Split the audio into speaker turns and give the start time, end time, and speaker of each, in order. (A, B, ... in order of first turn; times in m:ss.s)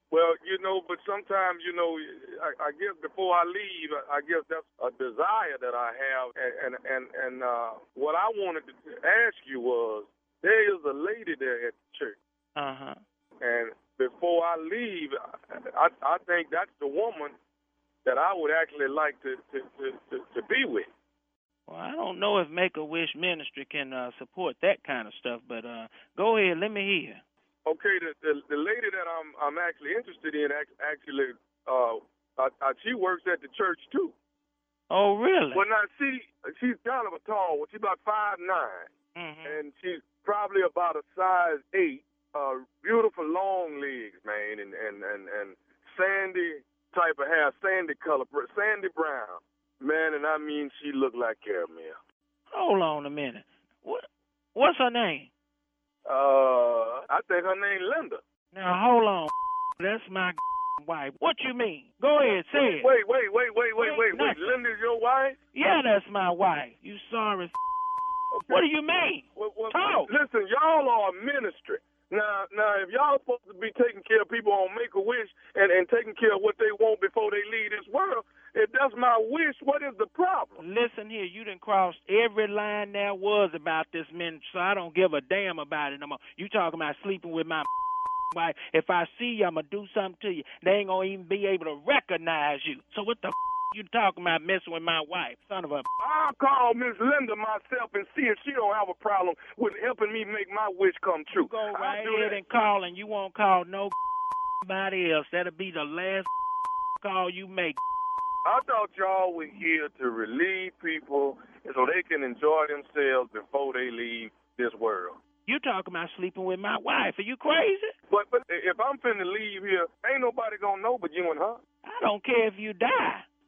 0:00.1-0:12.2 A
0:12.6-0:13.0 B
0:13.4-0:17.4 A
0:18.0-0:20.9 A
0:21.7-0:27.2 B
0:27.6-0:34.1 A
0:34.9-0:35.6 B
0:35.5-0:38.9 A
0:39.2-0:39.6 B
0:39.4-0:52.0 A
0:52.5-0:55.3 B
0:56.0-0:58.2 A
0:58.5-1:02.9 B
1:02.5-1:05.4 A
1:03.8-1:04.6 B
1:05.5-1:07.6 B
1:08.3-1:08.6 A
1:08.5-1:10.1 B
1:09.4-1:20.6 A
1:20.6-1:27.7 B
1:28.3-1:35.9 B
1:36.0-1:42.4 A
1:41.3-1:43.9 B
1:44.6-1:46.3 B
1:47.0-1:47.8 B
1:48.4-1:55.2 A
1:55.4-1:57.9 B
1:58.1-2:01.6 A
2:01.8-2:03.2 B